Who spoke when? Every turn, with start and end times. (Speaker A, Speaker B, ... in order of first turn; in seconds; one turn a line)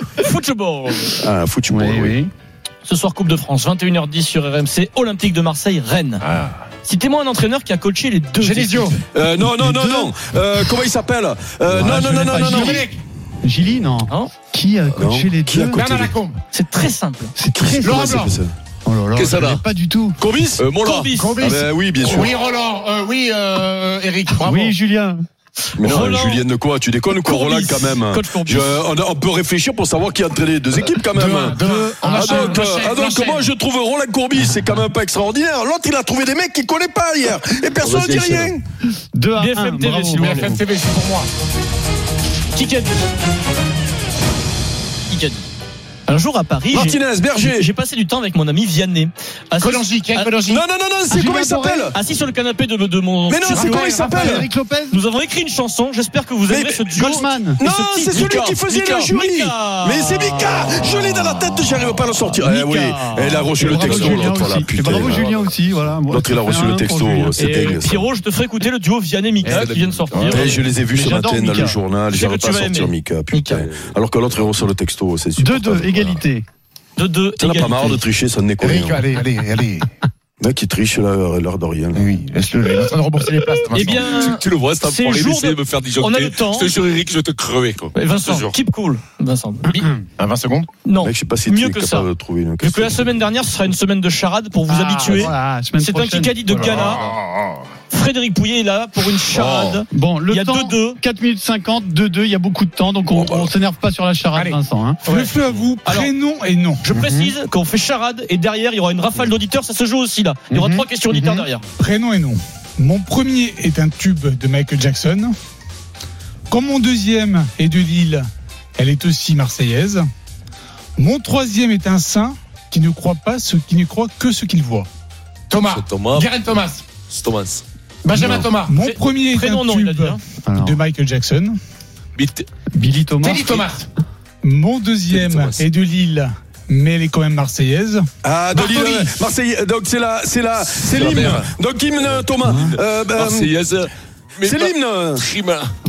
Speaker A: 0.2-1.1
Speaker B: 1.2-2.2
Speaker C: 1.7-2.3
Speaker A: 2.9-6.2
Speaker D: 6.2-6.6
Speaker A: 6.8-8.9
Speaker D: 8.4-9.0
Speaker B: 9.1-12.8
Speaker C: 9.4-10.8
Speaker C: 11.7-12.9
Speaker D: 11.9-13.0
Speaker C: 13.4-15.8
Speaker A: 14.1-14.3
Speaker B: 14.9-16.1
Speaker D: 15.7-16.4
Speaker A: 16.5-17.3
Speaker C: 17.4-18.1
Speaker B: 17.6-18.5
Speaker D: 17.8-18.4
Speaker C: 18.9-20.2
Speaker E: 19.1-19.6
Speaker E: 20.2-21.1
Speaker A: 20.2-21.4
Speaker D: 21.1-24.8
Speaker B: 21.4-22.3
Speaker C: 24.4-25.2
Speaker B: 25.8-31.6
Speaker A: 25.8-26.4
Speaker A: 27.1-28.8
Speaker D: 31.1-33.5
Speaker C: 31.6-32.6
Speaker B: 32.2-38.6
Speaker E: 37.8-38.5
Speaker C: 39.1-40.6
Speaker A: 39.4-40.5
Speaker D: 40.2-41.3
Speaker A: 42.5-43.1
Speaker A: 45.1-45.5
Speaker A: 46.1-50.3
Speaker B: 46.7-47.7
Speaker D: 49.6-50.7
Speaker B: 50.5-52.0
Speaker C: 51.1-51.9
Speaker A: 51.9-60.5
Speaker B: 53.3-54.5
Speaker D: 53.5-54.4
Speaker C: 53.5-55.0
Speaker B: 56.5-56.9
Speaker C: 56.9-57.6
Speaker B: 57.6-65.3
Speaker C: 60.3-61.6
Speaker A: 62.3-64.3
Speaker C: 63.6-67.7
Speaker E: 64.9-65.9
Speaker B: 66.1-68.1
Speaker A: 67.4-70.6
Speaker C: 69.4-69.8
Speaker E: 69.5-70.1
Speaker D: 70.1-70.5
Speaker B: 70.3-76.2
Speaker C: 70.8-71.8
Speaker A: 72.1-72.9
Speaker C: 73.3-73.7
Speaker E: 73.5-73.9
Speaker C: 75.4-76.5
Speaker A: 77.0-78.0
Speaker B: 77.4-79.0
Speaker D: 78.6-79.9
Speaker B: 80.4-82.0
Speaker D: 81.9-84.3
Speaker A: 83.7-86.7
Speaker E: 83.8-88.5
Speaker A: 88.0-89.8
Speaker D: 89.7-90.7
Speaker A: 90.8-92.1
Speaker B: 91.0-93.1
Speaker A: 92.6-97.0
Speaker C: 94.7-97.2
Speaker D: 96.7-97.6
Speaker A: 97.9-101.0
Speaker C: 99.9-105.1
Speaker B: 103.2-103.5
Speaker A: 105.0-105.3
Speaker F: 105.2-106.8
Speaker A: 105.8-106.1
Speaker A: 106.8-111.6
Speaker C: 110.5-111.5
Speaker F: 111.8-115.3
Speaker F: 116.5-118.2
Speaker F: 118.8-120.0
Speaker F: 121.0-124.9
Speaker D: 125.5-126.8
Speaker E: 125.7-126.4
Speaker E: 127.1-127.6
Speaker D: 128.1-128.8
Speaker F: 128.7-131.6
Speaker A: 128.8-130.2
Speaker C: 130.5-130.8
Speaker E: 132.2-132.5
Speaker C: 132.8-133.5
Speaker D: 133.2-133.9
Speaker F: 134.4-138.1
Speaker E: 135.1-135.7
Speaker B: 138.2-143.5
Speaker D: 138.6-139.0
Speaker E: 140.6-145.7
Speaker C: 142.4-142.7
Speaker B: 144.4-145.2